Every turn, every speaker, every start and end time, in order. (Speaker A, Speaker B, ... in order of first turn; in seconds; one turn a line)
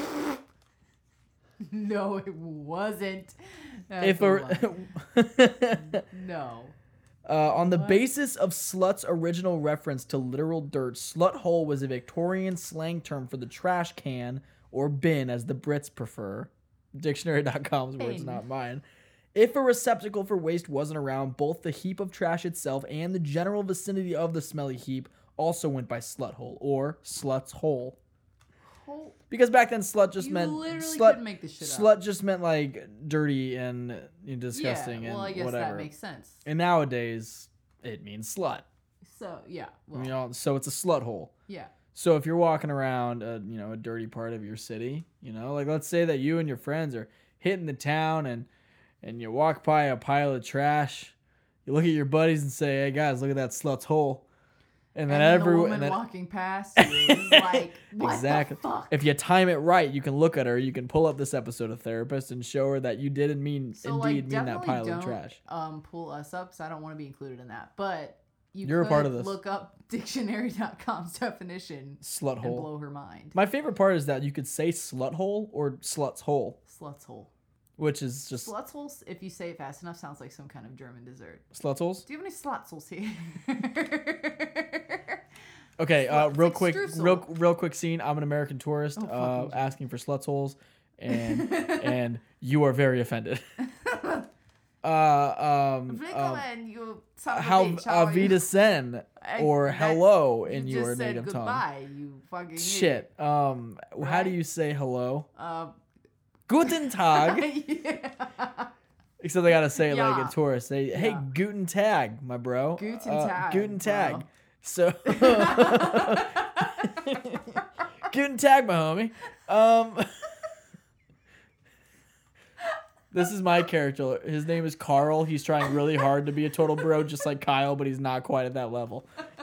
Speaker A: 1.6-4.9
Speaker B: 4.0-6.0
Speaker A: 5.8-6.8
Speaker B: 7.3-28.0
Speaker A: 7.5-8.1
Speaker A: 18.0-18.4
Speaker A: 28.6-29.2
Speaker B: 29.3-35.9
Speaker A: 30.2-31.9
Speaker A: 34.5-36.4
Speaker B: 36.5-38.6
Speaker A: 39.0-40.1
Speaker B: 39.9-41.3
Speaker A: 41.5-41.7
Speaker B: 41.9-48.5
Speaker B: 49.0-51.1
Speaker B: 51.7-54.2
Speaker B: 55.0-56.0
Speaker A: 55.1-59.0
Speaker B: 56.8-65.4
Speaker A: 63.8-73.4
Speaker B: 68.6-69.3
Speaker B: 72.0-72.7
Speaker B: 73.3-76.6
Speaker A: 76.7-77.3
Speaker B: 77.8-78.5
Speaker A: 78.4-81.5
Speaker B: 81.5-82.0
Speaker A: 82.0-85.2
Speaker B: 85.8-93.4
Speaker A: 86.0-87.3
Speaker A: 89.0-89.7
Speaker A: 91.1-91.9
Speaker A: 93.6-94.3
Speaker B: 94.8-96.5
Speaker A: 95.9-98.4
Speaker B: 97.3-101.6
Speaker A: 99.2-103.1
Speaker B: 102.6-105.3
Speaker A: 104.0-104.4
Speaker A: 105.3-105.7
Speaker B: 106.5-107.5
Speaker A: 106.7-108.7
Speaker B: 109.2-120.3
Speaker A: 109.7-110.4
Speaker A: 110.9-111.3
Speaker A: 112.8-114.3
Speaker A: 115.0-117.6
Speaker B: 123.1-129.1